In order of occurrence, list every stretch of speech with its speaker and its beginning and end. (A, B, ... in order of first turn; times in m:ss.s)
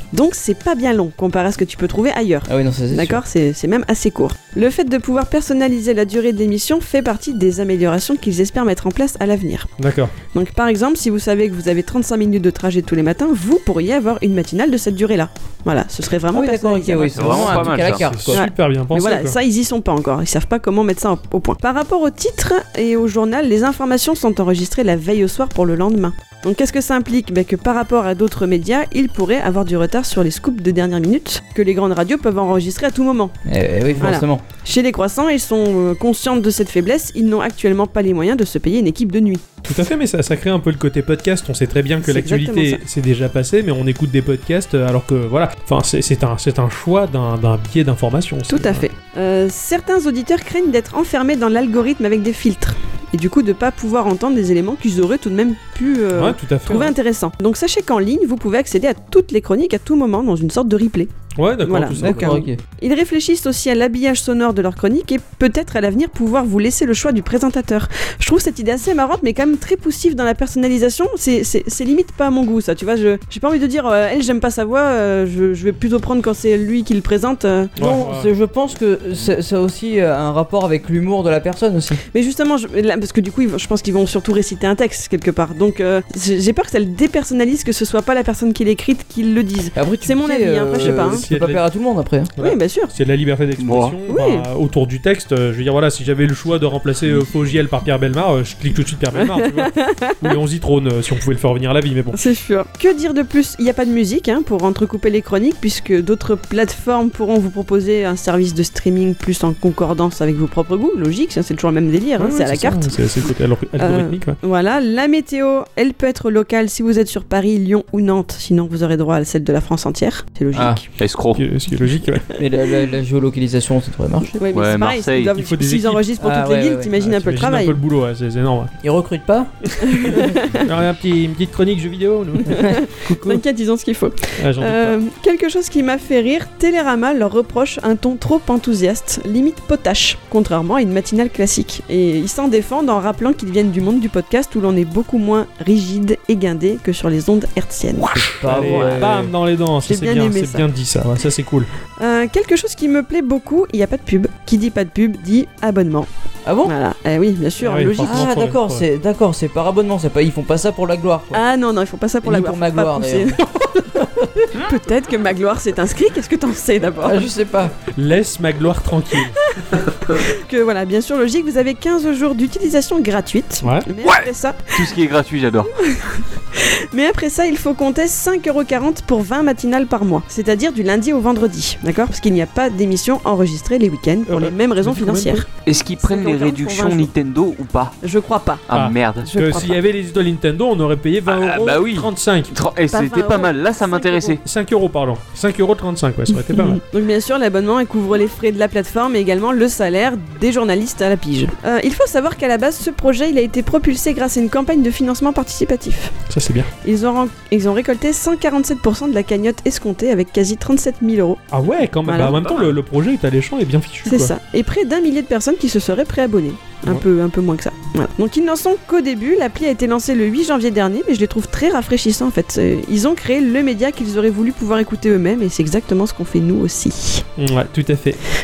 0:00.1-0:09.7 A
0:02.5-0:03.2 B
0:09.8-0:10.1 C
0:10.3-0:17.7 A
0:16.3-0:18.4 B
0:17.2-0:18.1 D
0:17.8-0:19.4 C
0:18.3-0:33.3 A
0:33.5-0:34.4 B
0:33.9-0:34.2 C
0:34.0-0:39.5 A
0:39.6-0:48.8 C
0:42.0-0:42.8 A
0:48.5-1:01.1 A
0:56.1-0:56.9 C
1:01.4-1:02.4 C
1:01.6-1:17.7 A
1:02.0-1:02.6 B
1:17.8-1:18.3 C
1:17.8-1:22.0 B
1:22.1-1:31.2 A
1:29.8-1:32.3 B
1:30.8-1:31.6 C
1:32.4-1:42.2 C
1:32.4-1:32.9 A
1:33.6-1:34.0 D
1:34.1-1:34.5 A
1:39.1-1:40.3 A
1:42.1-1:52.9 A
1:52.2-1:54.4 C
1:53.8-2:00.8 A
2:00.5-2:00.8 B
2:01.0-2:01.4 D
2:01.4-2:02.2 C
2:02.4-2:04.4 B
2:04.4-2:07.8 A
2:04.5-2:05.3 D
2:05.4-2:06.1 C
2:06.2-2:07.0 B
2:07.0-2:08.7 C
2:08.8-2:09.5 B
2:09.8-2:13.4 C
2:09.8-2:10.6 A
2:12.5-2:29.1 A
2:14.4-2:15.0 C
2:28.0-2:31.7 C
2:28.1-2:29.3 B
2:29.8-2:30.7 A
2:32.0-2:36.1 A
2:36.4-2:36.7 B
2:36.6-2:38.3 A
2:37.6-2:38.8 C
2:38.0-2:41.4 B
2:41.3-2:47.2 A
2:42.2-2:43.4 B
2:47.0-2:47.8 B
2:48.0-2:49.5 C
2:50.1-2:54.9 A
2:53.6-2:53.9 C
2:54.1-2:55.7 D
2:55.8-3:05.5 A
3:04.3-3:05.5 C
3:05.6-3:08.0 D
3:06.0-3:07.1 A
3:08.0-3:08.7 A
3:08.7-3:09.3 D
3:08.7-3:12.5 C
3:09.2-3:09.8 A
3:11.3-3:14.4 D
3:12.9-3:14.4 A
3:14.4-3:16.8 C
3:16.5-3:26.1 A
3:26.3-3:26.7 C
3:26.8-3:31.4 A
3:31.5-3:34.4 C
3:32.0-3:32.4 A
3:34.0-3:47.3 A
3:47.4-3:48.2 C